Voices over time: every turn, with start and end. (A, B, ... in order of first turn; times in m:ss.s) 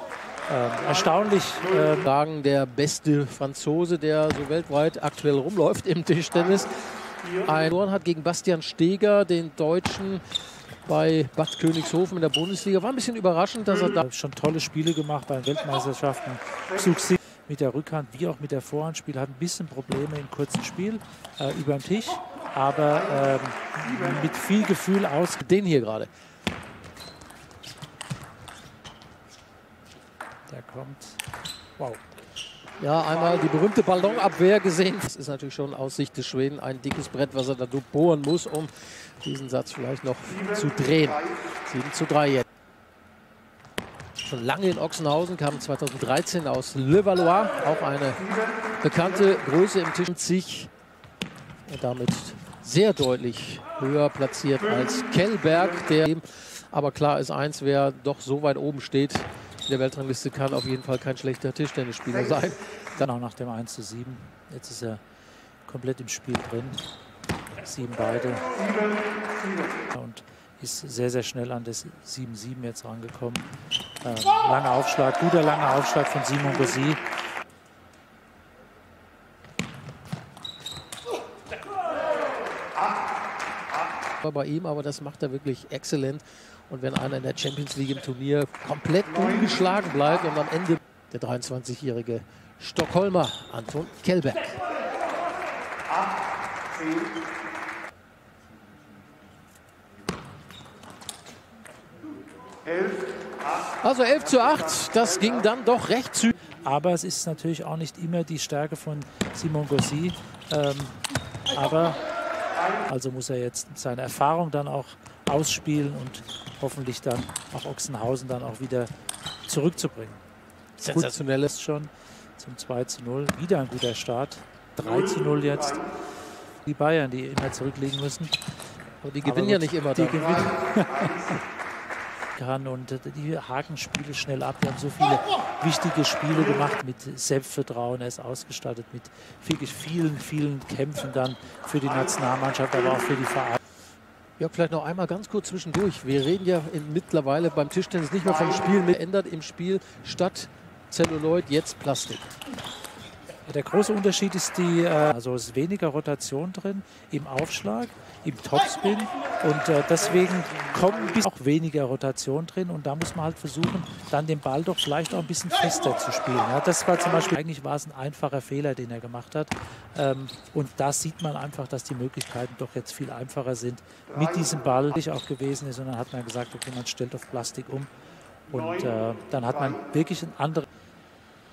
0:00.5-0:02.1 A
0:02.0-0:06.7 B
0:07.4-0:10.2 B
0:10.8-0:14.0 B
0:14.0-0:25.4 A
0:25.4-0:26.1 B
0:30.5-0:31.2 A
0:32.8-0:42.4 B
0:44.2-0:50.7 B
0:51.6-1:03.0 B
1:03.0-1:05.0 A
1:05.6-1:06.8 A
1:07.6-1:08.5 A
1:09.9-1:13.5 A
1:14.0-1:17.0 A
1:24.2-1:34.6 B
1:43.8-1:46.4 B
1:46.6-1:51.0 A
1:51.5-1:52.0 A
1:52.8-1:58.9 A
1:59.5-2:00.2 A
2:00.8-2:01.5 B
2:00.9-2:05.9 A
2:06.6-2:08.4 A
2:09.0-2:10.4 B
2:09.2-2:11.4 A
2:12.3-2:23.6 A
2:24.4-2:32.4 B
2:33.4-2:57.9 A
2:58.5-3:00.6 A